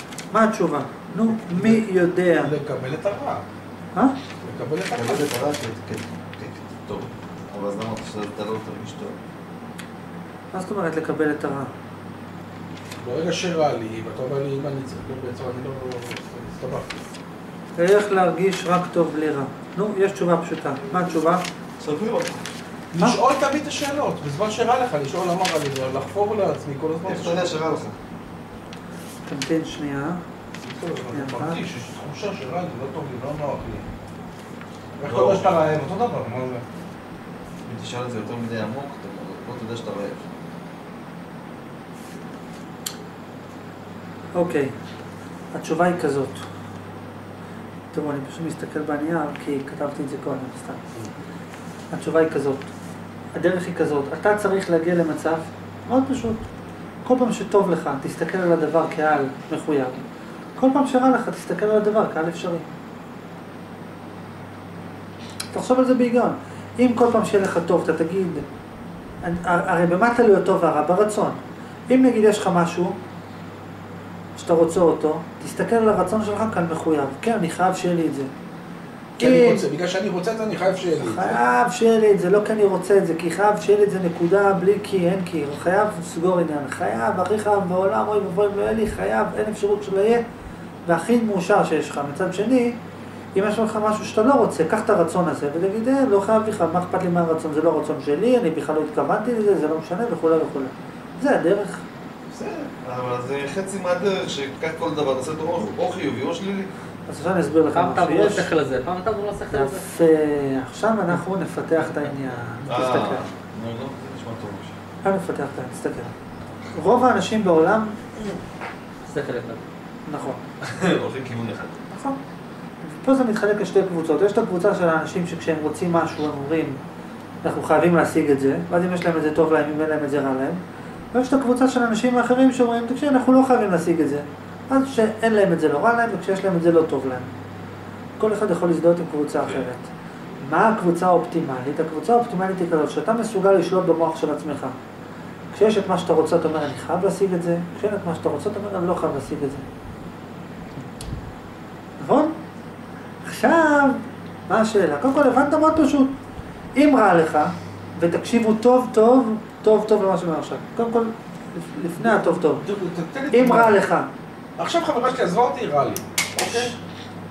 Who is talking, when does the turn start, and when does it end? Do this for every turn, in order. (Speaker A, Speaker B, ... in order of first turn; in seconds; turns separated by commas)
Speaker A: 0.3-2.5, Speaker B: 1.3-3.4, Speaker B: 4.4-5.3, Speaker C: 4.9-9.2, Speaker A: 10.5-11.7, Speaker B: 13.0-17.0, Speaker A: 17.8-21.4, Speaker C: 21.8-22.4, Speaker B: 22.9-27.5, Speaker C: 27.0-27.9, Speaker A: 29.2-30.2, Speaker B: 30.6-33.9, Speaker A: 31.1-31.6, Speaker B: 35.0-36.6, Speaker C: 35.0-35.6, Speaker C: 37.6-40.2, Speaker A: 44.3-44.7, Speaker A: 45.5-46.5, Speaker A: 47.9-50.8, Speaker A: 51.9-52.7, Speaker A: 53.3-56.4, Speaker A: 57.0-60.0, Speaker A: 60.5-62.7, Speaker A: 65.5-68.4, Speaker A: 69.2-71.4, Speaker A: 71.9-73.0, Speaker A: 74.3-78.3, Speaker A: 79.2-79.6, Speaker B: 79.2-81.4, Speaker A: 81.0-90.2, Speaker A: 90.8-92.8, Speaker A: 93.3-101.8, Speaker C: 102.3-106.7, Speaker A: 107.1-108.5, Speaker D: 107.7-109.9, Speaker A: 109.5-113.2, Speaker C: 112.6-114.8, Speaker A: 115.0-116.1, Speaker A: 116.7-118.0, Speaker D: 119.0-119.6, Speaker A: 120.0-120.4, Speaker C: 120.6-121.8, Speaker A: 121.9-122.2, Speaker A: 122.8-126.8, Speaker A: 127.4-130.6, Speaker A: 131.1-137.3, Speaker A: 138.2-144.8, Speaker C: 139.4-139.7, Speaker A: 145.5-149.7, Speaker A: 152.0-152.3, Speaker A: 153.2-156.1, Speaker A: 156.7-162.6, Speaker B: 162.0-163.8, Speaker A: 163.3-164.1, Speaker B: 164.6-166.7, Speaker A: 166.4-166.8